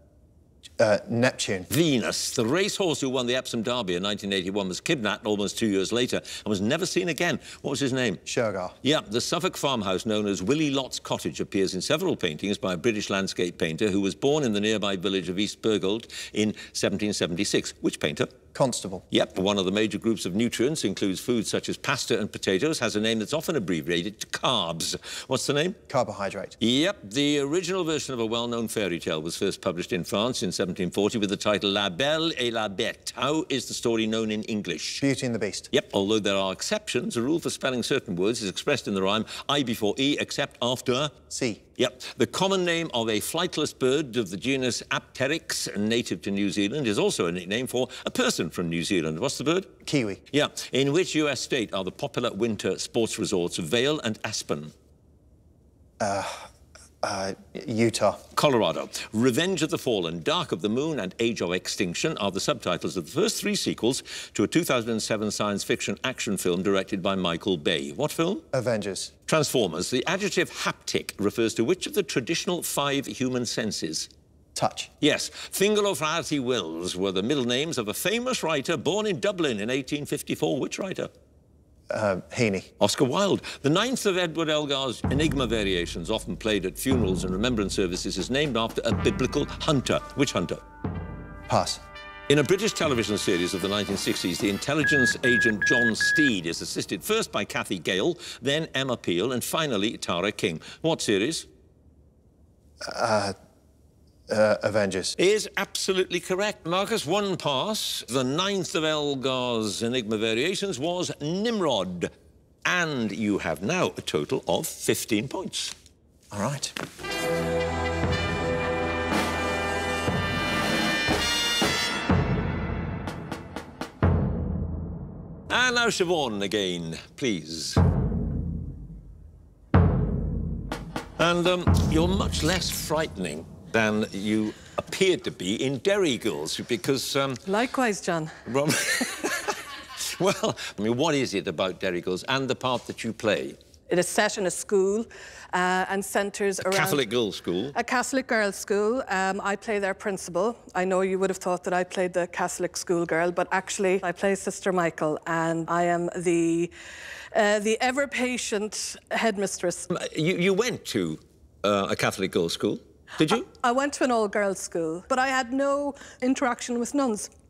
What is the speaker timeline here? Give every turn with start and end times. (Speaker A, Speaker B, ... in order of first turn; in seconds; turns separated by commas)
Speaker A: 0.8-1.7, Speaker B: 1.7-8.2, Speaker A: 8.3-8.8, Speaker B: 8.8-18.4, Speaker A: 18.5-19.0, Speaker B: 19.1-25.8, Speaker A: 25.9-26.6, Speaker B: 26.6-35.0, Speaker A: 35.0-35.7, Speaker B: 35.7-41.1, Speaker A: 41.3-41.6, Speaker B: 41.8-49.7, Speaker A: 49.8-50.2, Speaker B: 50.3-54.7, Speaker A: 56.0-56.5, Speaker A: 57.0-58.2, Speaker B: 58.3-68.5, Speaker A: 68.5-69.1, Speaker B: 69.3-74.1, Speaker A: 74.5-74.9, Speaker B: 75.0-81.1, Speaker A: 81.9-82.7, Speaker B: 82.8-90.6, Speaker A: 91.5-91.8, Speaker B: 92.3-101.5, Speaker A: 102.8-103.3, Speaker A: 104.3-105.2, Speaker B: 105.2-112.1, Speaker B: 112.7-115.7, Speaker A: 116.3-116.7, Speaker B: 125.5-127.8, Speaker B: 131.2-137.4, Speaker C: 137.5-138.3, Speaker B: 138.5-143.6, Speaker C: 143.9-147.0, Speaker B: 146.6-147.8, Speaker C: 147.7-156.7, Speaker C: 157.3-159.9, Speaker B: 159.9-163.4, Speaker C: 163.3-167.3